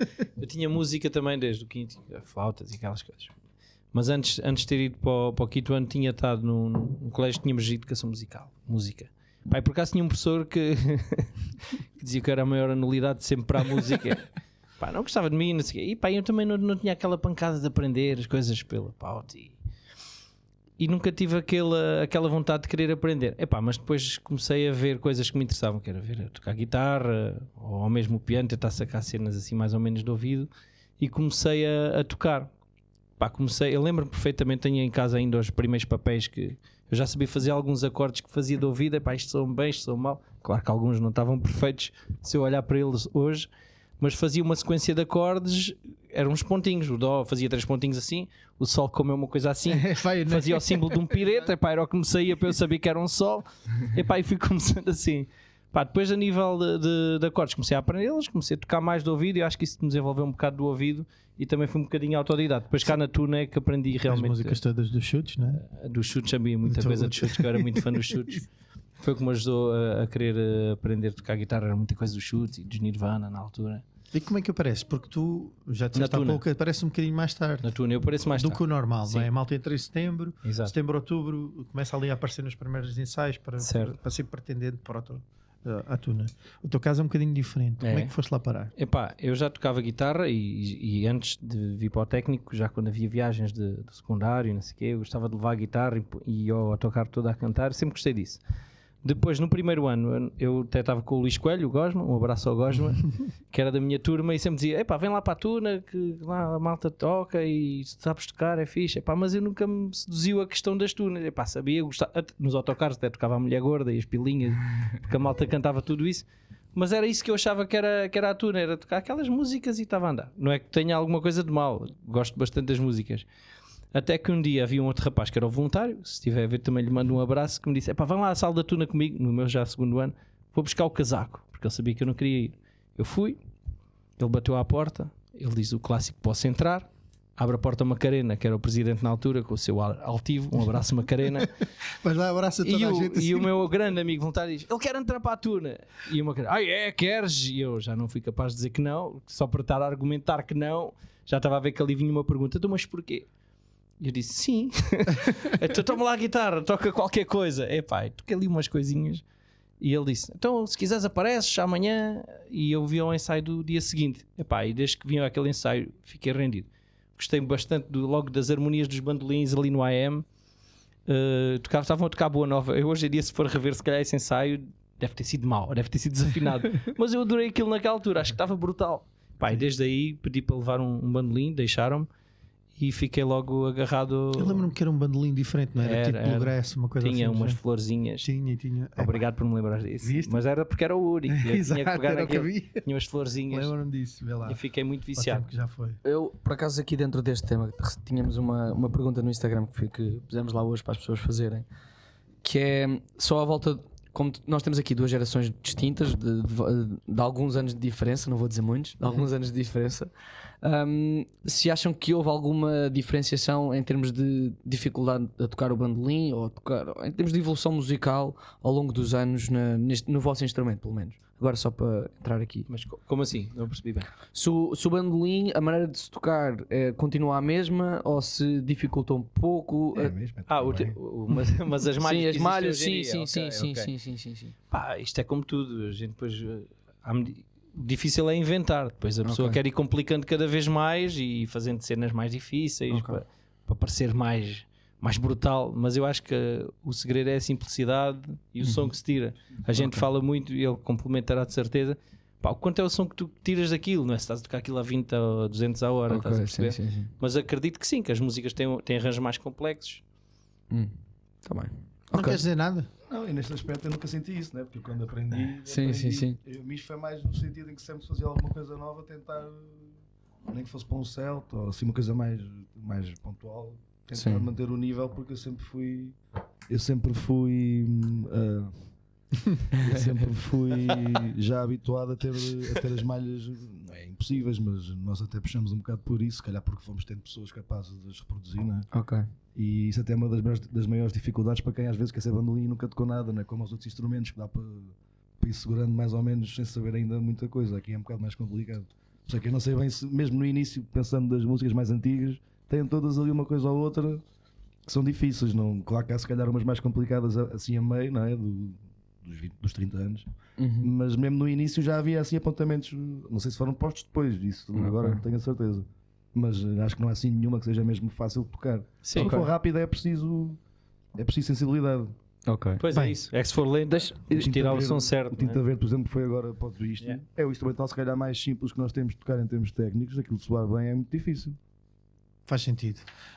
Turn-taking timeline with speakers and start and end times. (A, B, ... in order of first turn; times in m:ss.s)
0:00.4-0:03.3 A
0:03.9-0:11.3 A
0:12.0-0:14.2 A
0:14.8-0:19.6 A
0:20.8-0:32.5 A
0:33.2-0:43.5 A
0:44.0-1:04.6 A
0:49.7-0:51.5 B
1:04.1-1:05.6 B
1:05.5-1:08.4 A
1:06.6-1:08.4 B
1:09.0-1:13.8 A
1:14.1-1:17.7 B
1:15.9-1:16.4 A
1:17.6-1:19.3 A
1:18.4-1:28.7 B
1:20.4-1:20.7 A
1:23.6-1:24.0 A
1:27.8-1:28.1 A
1:28.8-1:38.4 A
1:39.0-2:03.2 A
2:03.9-2:13.4 A
2:14.2-2:21.5 A
2:22.0-2:23.6 B
2:22.6-2:33.3 A
2:34.0-2:39.2 A
2:39.8-2:50.2 A
2:51.1-3:02.1 A
3:02.8-3:04.7 A
3:04.3-3:07.6 B
3:05.8-3:08.3 A
3:08.2-3:09.2 B
3:09.0-3:13.7 A
3:10.0-3:10.4 B
3:11.3-3:12.8 B
3:13.5-3:14.6 B
3:14.4-3:15.5 A
3:15.1-3:16.0 B
3:16.0-3:21.6 C
3:22.4-3:30.1 C
3:30.6-3:42.7 C
3:42.7-3:44.1 A
3:44.3-3:50.1 C
3:49.9-3:51.0 D
3:50.5-3:53.9 A
3:52.0-3:54.5 C
3:54.7-4:20.0 A
3:59.2-3:59.6 C
4:02.9-4:03.2 C
4:08.6-4:08.9 C
4:09.7-4:10.0 C
4:16.1-4:17.1 C
4:21.4-4:22.4 C
4:22.1-4:22.9 B
4:23.0-4:29.9 D
4:25.6-4:26.4 C
4:30.5-4:36.2 D
4:34.1-4:34.5 C
4:36.7-4:38.8 D
4:39.7-4:48.9 D
4:39.7-4:40.1 C
4:48.9-4:49.2 C
4:49.5-5:04.2 D
5:04.8-5:10.2 D
5:10.6-5:10.9 C
5:10.8-5:20.6 D
5:14.8-5:15.2 C
5:19.0-5:19.4 A
5:19.2-5:19.5 C
5:21.2-5:22.1 D
5:22.4-5:22.8 C
5:22.8-5:25.6 A
5:23.9-5:24.4 C
5:24.3-5:31.6 D
5:32.5-5:33.0 B